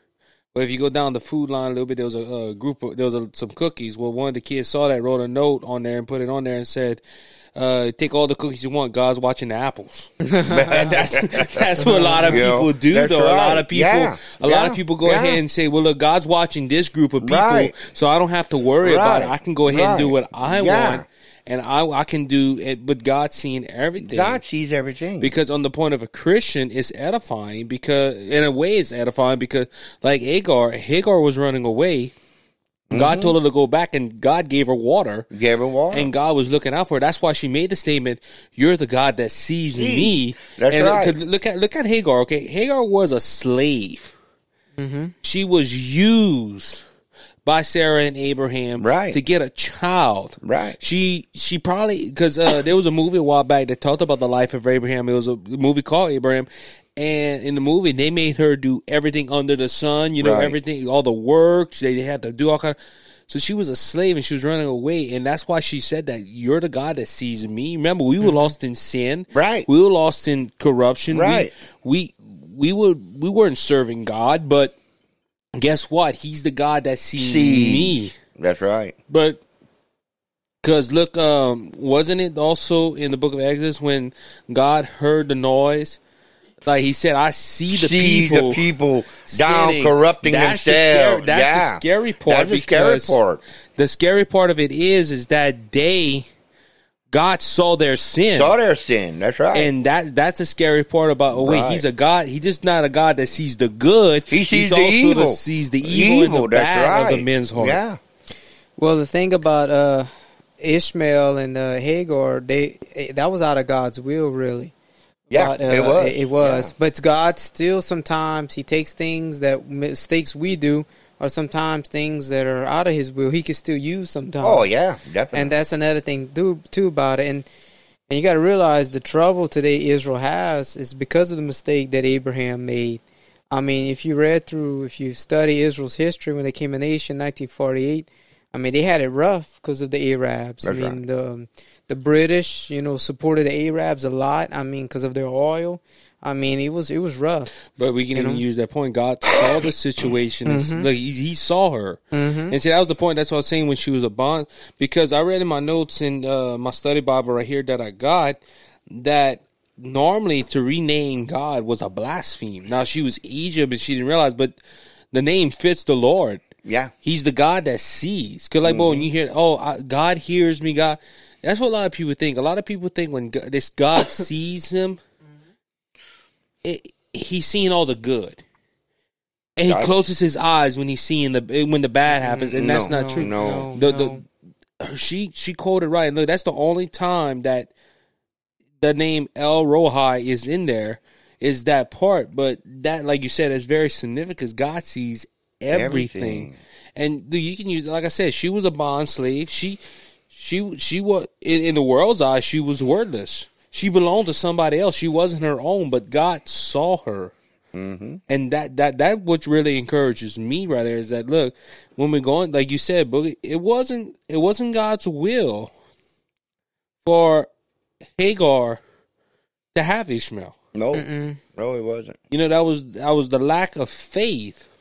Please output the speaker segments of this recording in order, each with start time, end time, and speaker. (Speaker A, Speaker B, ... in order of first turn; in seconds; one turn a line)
Speaker A: 0.5-7.0
Speaker A: 7.6-24.4
Speaker B: 10.3-10.7
Speaker C: 10.4-15.4
Speaker B: 11.9-12.5
Speaker C: 17.2-17.8
Speaker C: 18.8-21.1
Speaker C: 24.0-25.3
Speaker A: 25.2-32.1
Speaker C: 32.9-33.3
Speaker A: 32.9-35.3
Speaker C: 35.3-36.1
Speaker A: 35.9-44.1
Speaker C: 39.7-41.2
Speaker B: 44.8-45.1
Speaker A: 45.2-46.8
Speaker A: 47.5-62.8
Speaker C: 48.8-49.2
Speaker C: 50.4-50.8
Speaker C: 60.2-60.6
Speaker A: 63.3-74.8
Speaker B: 68.2-68.5
Speaker C: 69.3-69.7
Speaker C: 71.1-71.5
Speaker A: 75.5-78.2
Speaker C: 77.2-79.0
Speaker A: 79.1-79.4
Speaker A: 80.6-86.0
Speaker A: 86.6-88.6
Speaker C: 87.7-93.4
Speaker A: 89.3-93.2
Speaker A: 93.8-96.3
Speaker A: 97.1-98.5
Speaker C: 98.3-99.7
Speaker A: 99.5-107.8
Speaker C: 101.3-101.8
Speaker C: 104.3-108.0
Speaker B: 108.8-114.7
Speaker B: 115.3-124.7
Speaker C: 115.3-116.7
Speaker C: 124.4-125.5
Speaker B: 125.3-127.5
Speaker B: 128.1-147.5
Speaker C: 140.6-141.0
Speaker A: 147.8-152.0
Speaker B: 148.2-148.4
Speaker B: 150.5-150.9
Speaker B: 152.1-152.6
Speaker A: 152.5-158.4
Speaker A: 158.9-164.6
Speaker A: 165.1-166.4
Speaker C: 166.7-166.9
Speaker A: 167.0-175.0
Speaker C: 168.6-169.1
Speaker A: 176.6-178.4
Speaker A: 179.6-184.2
Speaker C: 179.7-180.0
Speaker B: 182.2-184.2
Speaker C: 182.6-183.7
Speaker A: 184.8-187.7
Speaker A: 188.8-199.8
Speaker C: 195.7-196.6
Speaker A: 200.3-207.3
Speaker C: 207.7-208.2
Speaker A: 208.3-215.7
Speaker A: 217.0-217.5
Speaker A: 218.2-218.8
Speaker A: 219.7-220.6
Speaker C: 220.7-222.2
Speaker B: 220.9-221.4
Speaker A: 222.3-224.7